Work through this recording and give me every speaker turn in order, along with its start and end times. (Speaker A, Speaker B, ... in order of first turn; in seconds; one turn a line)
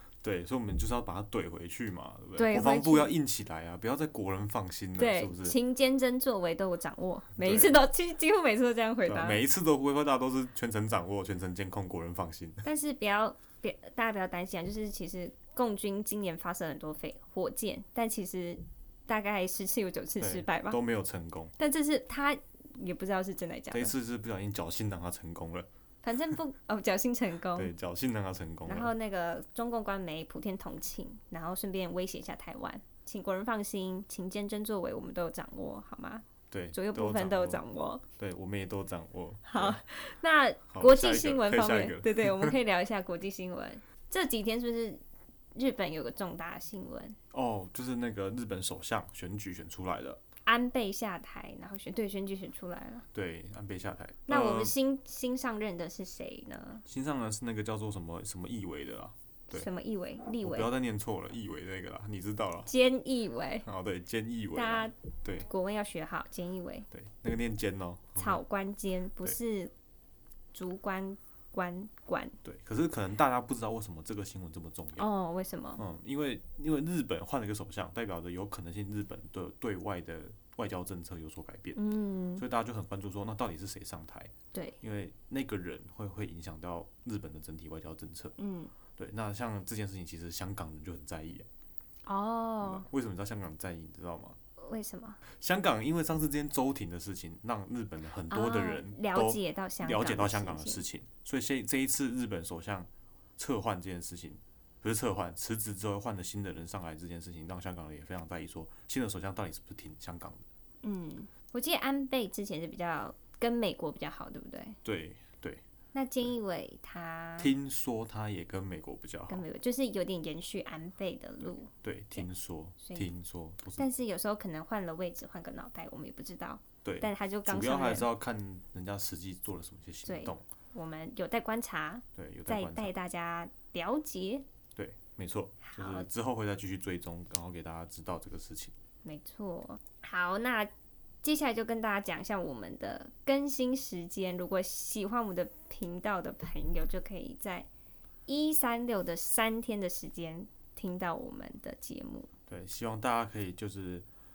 Speaker A: 0.2-5.6
Speaker B: 2.4-3.1
Speaker B: 5.0-9.4
Speaker A: 7.4-7.8
Speaker A: 9.1-12.7
Speaker B: 12.6-20.8
Speaker A: 20.2-21.5
Speaker B: 21.6-23.9
Speaker A: 23.7-25.7
Speaker B: 26.0-27.7
Speaker A: 27.5-28.9
Speaker B: 28.6-38.0
Speaker A: 36.5-37.6
Speaker A: 38.2-39.8
Speaker B: 39.4-45.0
Speaker A: 40.7-42.5
Speaker B: 45.5-47.1
Speaker A: 47.3-50.2
Speaker B: 50.5-53.0
Speaker A: 53.1-54.7
Speaker B: 54.3-56.8
Speaker A: 56.9-59.7
Speaker B: 59.5-60.7
Speaker A: 60.4-62.7
Speaker B: 62.6-63.6
Speaker A: 63.6-65.5
Speaker B: 64.5-64.9
Speaker B: 65.5-66.9
Speaker A: 66.9-68.4
Speaker B: 68.2-69.7
Speaker B: 70.5-72.4
Speaker A: 72.4-75.1
Speaker B: 75.0-75.8
Speaker A: 75.8-81.8
Speaker B: 81.7-82.4
Speaker A: 82.4-88.3
Speaker B: 88.4-88.7
Speaker A: 89.0-91.5
Speaker B: 92.0-92.8
Speaker A: 92.6-94.4
Speaker B: 94.6-95.2
Speaker A: 95.3-110.5
Speaker B: 98.3-100.8
Speaker B: 110.8-114.8
Speaker A: 114.8-115.6
Speaker B: 115.9-117.5
Speaker A: 117.4-119.5
Speaker B: 119.3-122.2
Speaker A: 121.8-123.8
Speaker B: 122.8-123.1
Speaker B: 123.8-128.1
Speaker A: 126.8-130.4
Speaker B: 130.0-134.4
Speaker A: 132.2-132.9
Speaker A: 134.8-138.7
Speaker B: 135.6-136.1
Speaker B: 139.0-140.7
Speaker B: 141.2-147.7
Speaker B: 148.3-152.3
Speaker A: 152.5-154.1